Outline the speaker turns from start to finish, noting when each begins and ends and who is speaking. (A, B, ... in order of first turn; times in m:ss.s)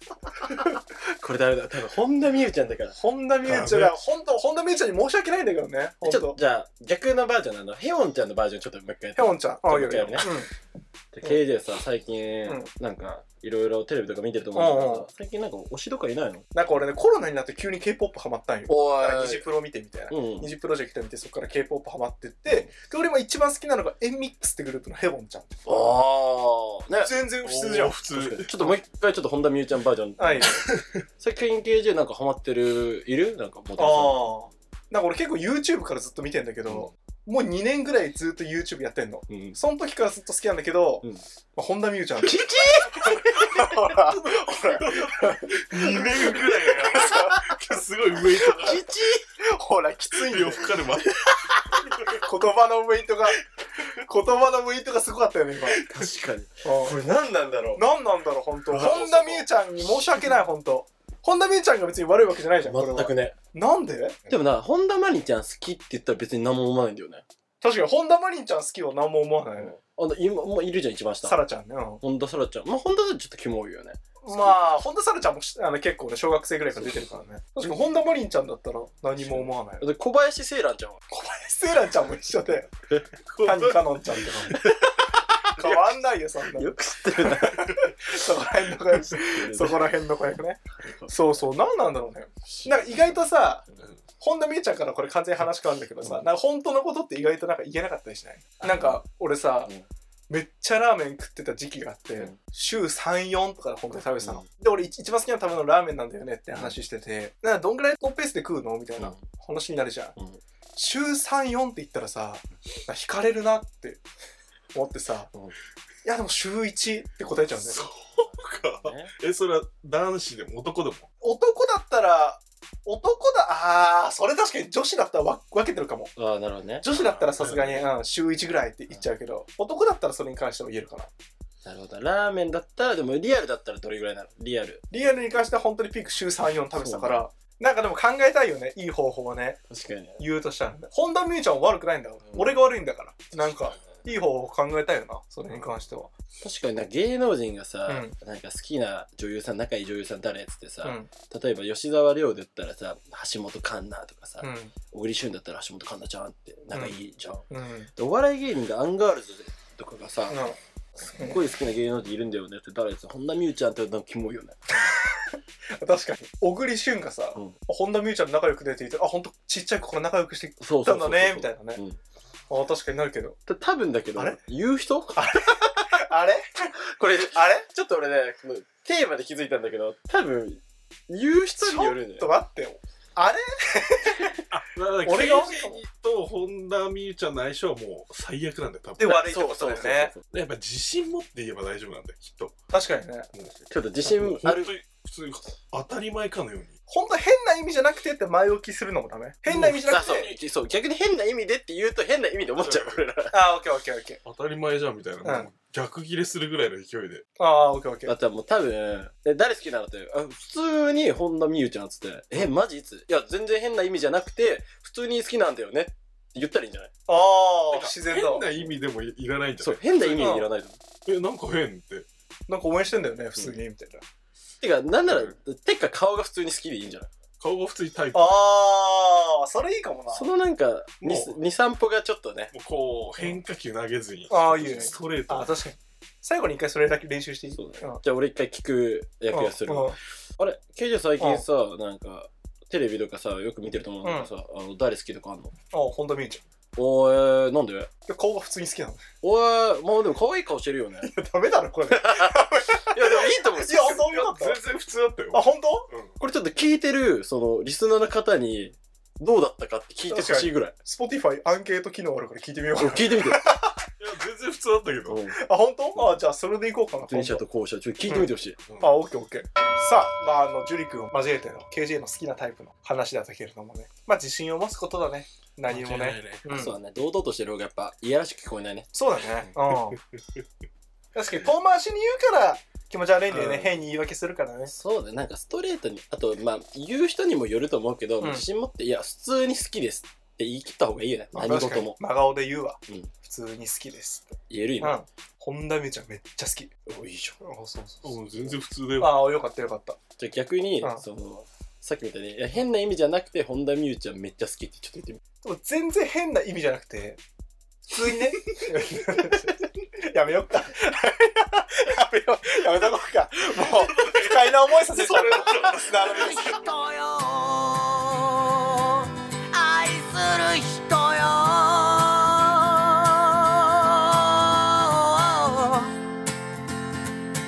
0:00.5-0:03.0 A
0:03.0-0:06.4 B
0:03.4-0:04.0 C
0:06.0-0:10.3 A
0:09.2-0:10.5 B
0:11.1-0:16.5 A
0:14.5-0:15.1 B
0:16.5-0:25.9 B
0:18.7-0:19.5 A
0:20.1-0:20.5 A
0:25.7-0:27.1 A
0:27.0-0:28.0 B
0:27.4-0:28.8 C
0:28.1-0:30.7 A
0:30.2-0:30.6 B
0:30.4-0:31.0 C
0:31.2-0:34.3 A
0:33.8-0:45.1 B
0:39.3-0:39.6 A
0:42.3-0:43.2 A
0:43.4-0:48.8 C
0:46.0-0:47.4 B
0:48.5-0:48.8 B
0:48.5-0:49.2 A
0:49.4-0:51.0 B
0:50.1-0:52.0 C
0:51.8-0:55.9 B
0:55.7-0:56.1 C
0:55.8-0:57.9 A
0:56.6-0:57.0 B
0:57.8-1:04.2 B
0:58.7-0:59.4 A
0:58.8-0:59.3 C
1:02.6-1:03.4 A
1:04.3-1:07.2 A
1:07.6-1:09.8 B
1:09.6-1:11.4 A
1:11.2-1:12.0 B
1:12.0-1:14.6 A
1:14.2-1:19.9 B
1:19.2-1:21.0 A
1:21.1-1:22.7 B
1:23.3-1:24.6 C
1:23.4-1:24.6 B
1:24.5-1:25.8 A
1:25.5-1:33.6 B
1:26.5-1:27.9 A
1:28.9-1:29.8 A
1:30.8-1:31.2 A
1:32.5-1:33.1 A
1:34.2-1:39.7 B
1:38.6-1:39.0 A
1:40.3-1:50.2 B
1:44.2-1:44.4 A
1:49.0-1:49.2 A
1:50.2-1:50.4 A
1:50.8-1:54.0 B
1:54.7-1:55.3 B
1:56.0-1:57.8 B
1:57.6-2:01.1 C
1:58.2-1:59.1 A
2:01.2-2:06.1 B
2:06.2-2:06.9 A
2:06.8-2:11.1 B
2:06.9-2:07.9 C
2:11.6-2:14.8 A
2:14.9-2:19.6 B
2:16.8-2:17.2 A
2:19.7-2:20.2 A
2:20.2-2:26.1 B
2:22.3-2:22.6 A
2:26.4-2:40.4 A
2:27.9-2:28.1 B
2:30.8-2:31.1 B
2:34.4-2:34.7 B
2:36.7-2:37.0 B
2:37.5-2:37.9 B
2:40.3-2:40.6 B
2:41.0-2:44.6 A
2:41.2-2:41.4 B
2:44.9-2:51.8 B
2:50.6-2:52.0 A
2:52.5-2:53.4 B
2:53.5-2:55.9 A
2:55.2-2:56.7 B
2:56.9-3:02.3 A
2:57.3-2:57.7 B
3:01.6-3:04.4 B
3:04.5-3:09.3 C
3:05.0-3:05.8 B
3:09.0-3:10.1 B
3:09.0-3:10.2 A
3:10.3-3:12.5 C
3:12.7-3:13.3 B
3:13.3-3:16.7 C
3:13.7-3:14.7 A
3:16.9-3:20.4 B
3:19.5-3:19.8 C
3:19.9-3:23.3 A
3:22.6-3:23.0 C
3:23.3-3:24.2 B
3:24.2-3:27.2 C
3:25.2-3:25.5 B
3:27.4-3:28.1 B
3:28.0-3:36.9 A
3:37.1-3:38.5 B
3:37.7-3:40.4 C
3:39.6-3:40.8 A
3:40.2-3:40.5 B
3:41.0-3:42.1 C
3:42.5-3:44.0 B
3:44.6-3:47.1 A
3:45.0-3:45.4 C
3:47.4-3:48.4 C
3:48.1-3:50.3 B
3:50.1-3:52.5 A
3:51.0-3:51.4 C
3:52.5-3:55.6 C
3:54.3-3:58.0 B
3:57.5-4:05.5 A
3:59.3-4:00.0 B
4:01.2-4:01.5 B
4:04.0-4:04.3 B
4:05.7-4:06.4 B
4:06.8-4:07.9 A
4:08.1-4:09.0 B
4:09.2-4:11.1 A
4:11.0-4:14.6 B
4:11.9-4:14.1 A
4:13.9-4:16.2 C
4:15.3-4:15.9 B
4:16.2-4:20.8 A
4:20.1-4:23.8 B
4:22.8-4:23.4 A
4:24.0-4:25.2 C
4:25.1-4:25.4 A
4:25.3-4:27.4 B
4:27.0-4:28.6 A
4:28.1-4:36.8 B
4:35.7-4:36.5 C
4:36.5-4:38.9 A
4:38.9-4:40.0 B
4:41.2-4:44.7 B
4:43.3-4:43.7 C
4:44.7-4:52.0 A
4:48.2-4:48.5 B
4:51.3-4:56.7 B
4:54.5-4:55.0 A
4:56.9-4:57.4 A
4:57.4-4:58.2 B
4:58.0-4:59.4 C
4:59.0-5:00.0 B
5:00.2-5:05.2 A
5:05.4-5:07.2 B
5:07.9-5:16.4 B
5:14.0-5:16.5 C
5:16.1-5:26.0 D